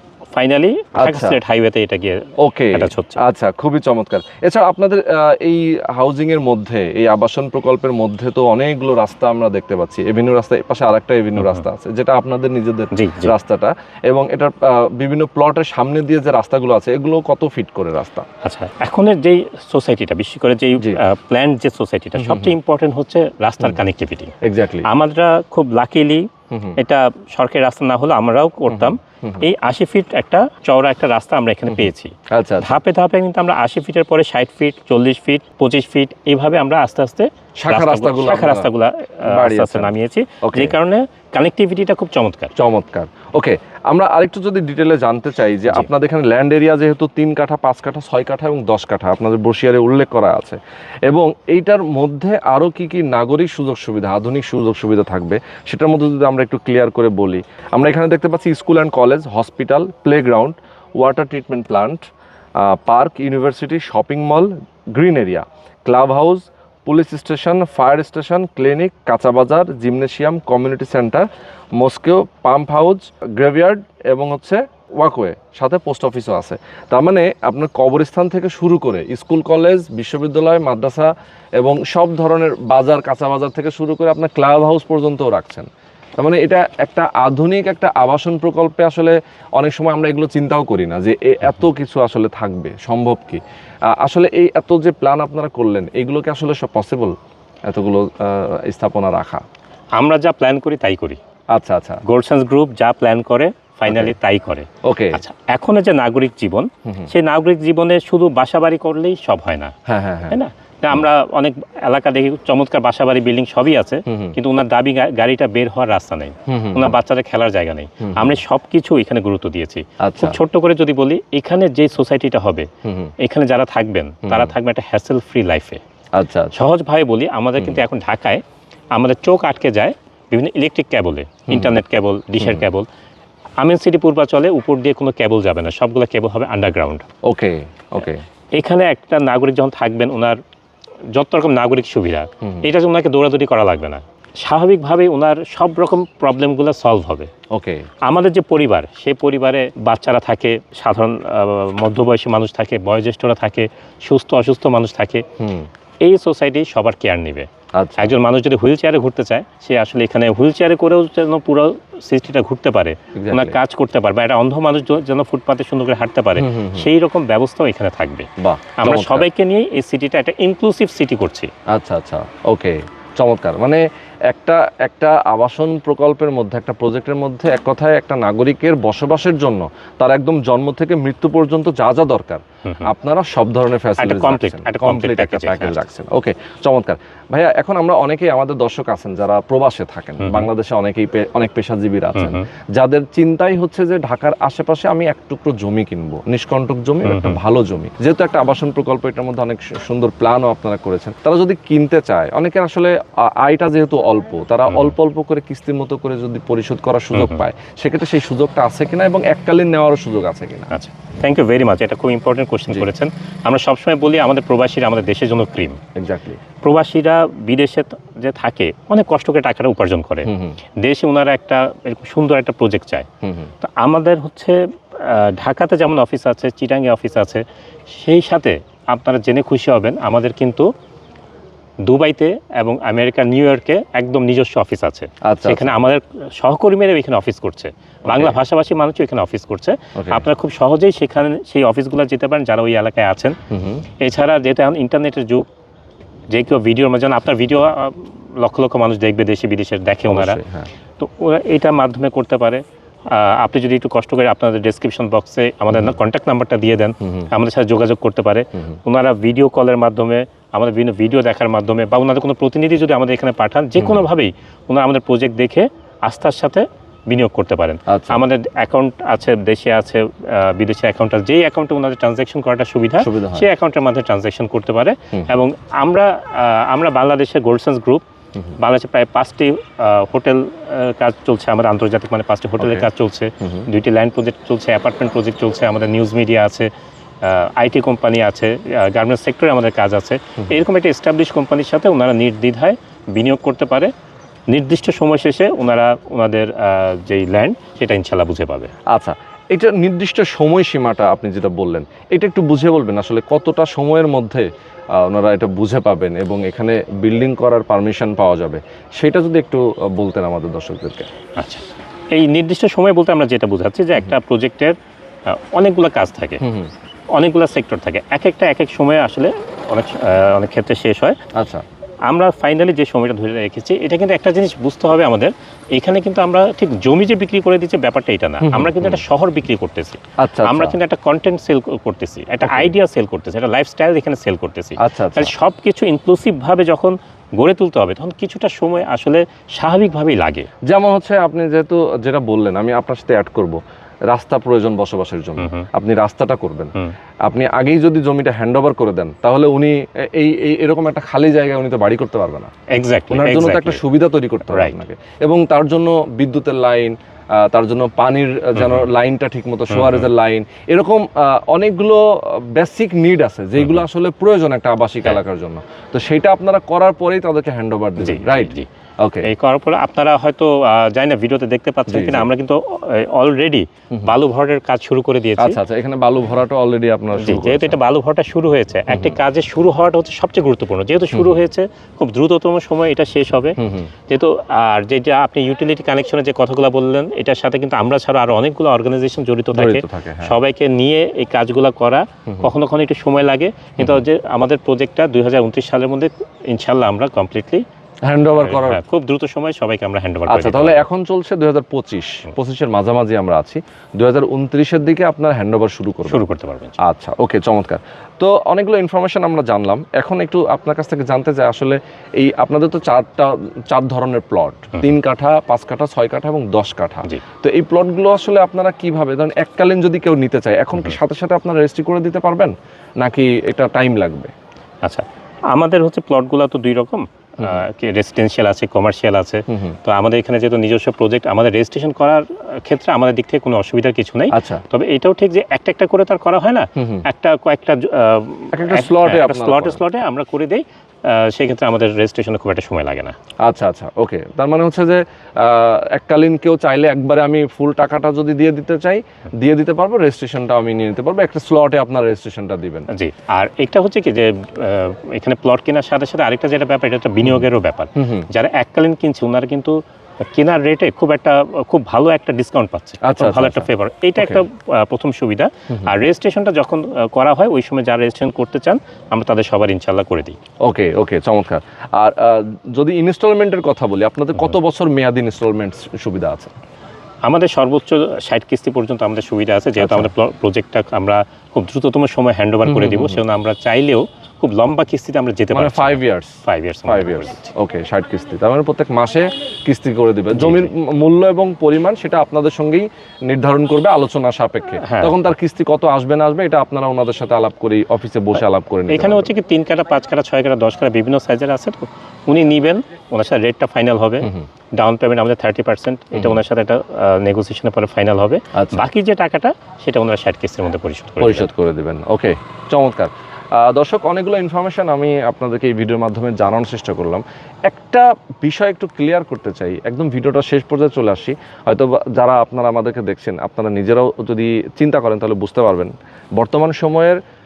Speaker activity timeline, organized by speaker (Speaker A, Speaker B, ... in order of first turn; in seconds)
Speaker A: 0.3-3.2, 11.4-11.6, 12.9-13.3, 18.4-24.3, 24.9-42.5, 100.0-101.2, 102.0-109.7, 110.3-122.7, 123.2-125.8, 126.5-128.4, 128.9-132.9, 133.6-137.0, 138.5-140.4, 141.1-147.3, 148.1-155.2, 156.0-157.5, 158.0-168.3, 168.8-171.5, 184.0-185.8, 190.2-190.5, 192.1-192.4, 197.0-197.4, 204.7-204.9, 207.1-207.4, 210.7-215.8, 216.6-223.1, 223.6-230.7, 231.8-243.4, 244.0-245.5, 246.3-250.4, 251.0-278.0, 278.6-286.7, 287.2-293.9, 294.5-298.7, 311.4-314.7, 315.2-316.4, 317.1-321.2, 322.1-340.5, 345.4-345.7, 352.7-353.8, 354.5-354.8, 358.5-358.9, 359.7-360.1, 363.6-363.8, 368.0-368.7, 369.2-375.6, 377.2-397.6, 398.4-400.9, 406.1-406.8, 424.8-443.1, 452.9-470.4, 477.2-487.5, 490.3-490.7, 494.8-495.1, 498.9-511.5
Speaker B: 1.0-1.4, 2.4-18.2, 22.2-22.5, 24.4-24.9, 26.5-26.8, 28.7-29.4, 31.7-32.7, 37.6-38.7, 39.2-40.7, 42.5-62.1, 62.6-71.3, 71.8-93.4, 93.9-97.2, 97.7-99.4, 101.5-102.0, 104.8-105.2, 109.9-110.4, 114.1-114.4, 116.5-116.9, 118.0-118.4, 120.0-120.4, 122.8-123.1, 124.2-124.5, 126.1-126.5, 131.5-131.8, 132.4-132.6, 137.2-138.2, 147.5-147.9, 155.4-155.7, 157.7-158.1, 163.1-163.6, 166.4-166.9, 168.4-169.3, 171.7-210.7, 215.9-216.4, 220.3-220.6, 223.2-223.5, 235.2-235.7, 238.1-238.4, 239.9-240.2, 243.5-243.8, 250.1-250.7, 257.0-257.3, 263.8-264.1, 267.9-268.2, 273.0-273.5, 282.6-282.9, 283.4-283.7, 298.9-311.1, 316.4-316.7, 321.4-321.6, 328.4-329.0, 330.2-330.8, 332.4-332.7, 334.8-335.3, 340.7-343.6, 344.1-352.5, 353.1-369.3, 371.9-372.3, 375.4-377.8, 378.9-379.1, 381.1-381.4, 383.6-383.9, 389.5-390.3, 393.8-394.0, 398.0-398.8, 400.3-406.2, 406.8-424.3, 429.5-429.8, 434.3-434.6, 436.8-437.0, 438.5-439.8, 443.4-452.9, 457.9-458.3, 463.0-464.4, 470.6-476.5, 479.8-480.1, 482.6-483.2, 485.5-499.3, 506.1-506.4, 508.5-508.8, 511.2-527.2